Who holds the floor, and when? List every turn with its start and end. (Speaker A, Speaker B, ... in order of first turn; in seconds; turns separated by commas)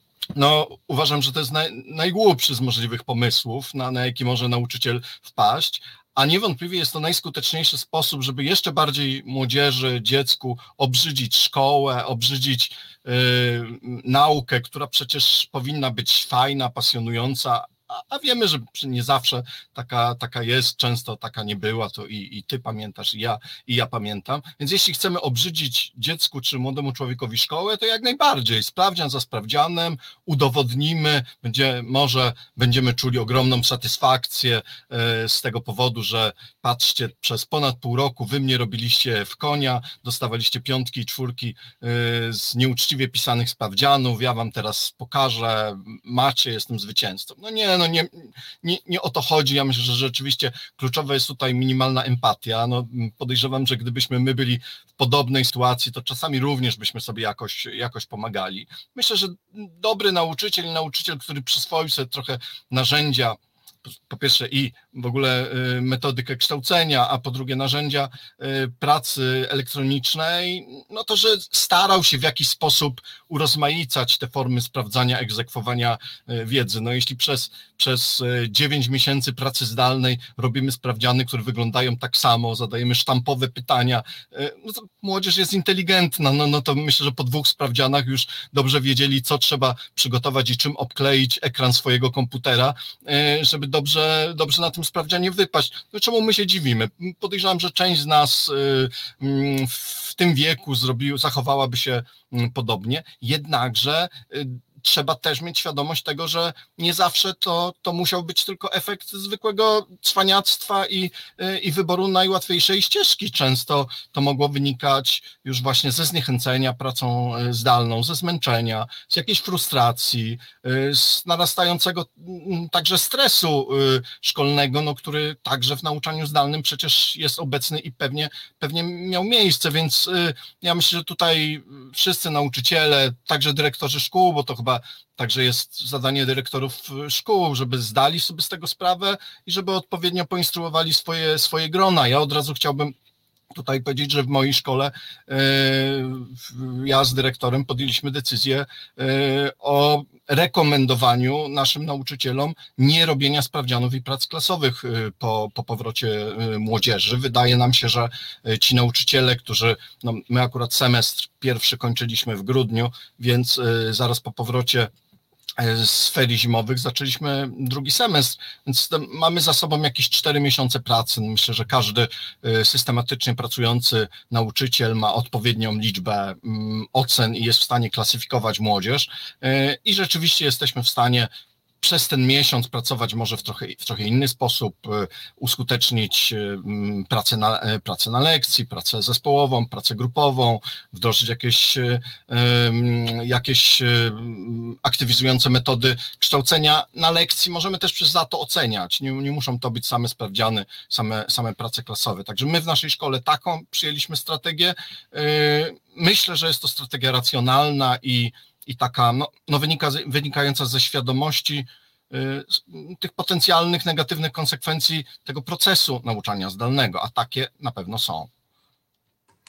Speaker A: 0.3-142.9, Speaker A: 143.5-164.9, Speaker A: 165.6-181.3, Speaker A: 181.8-218.3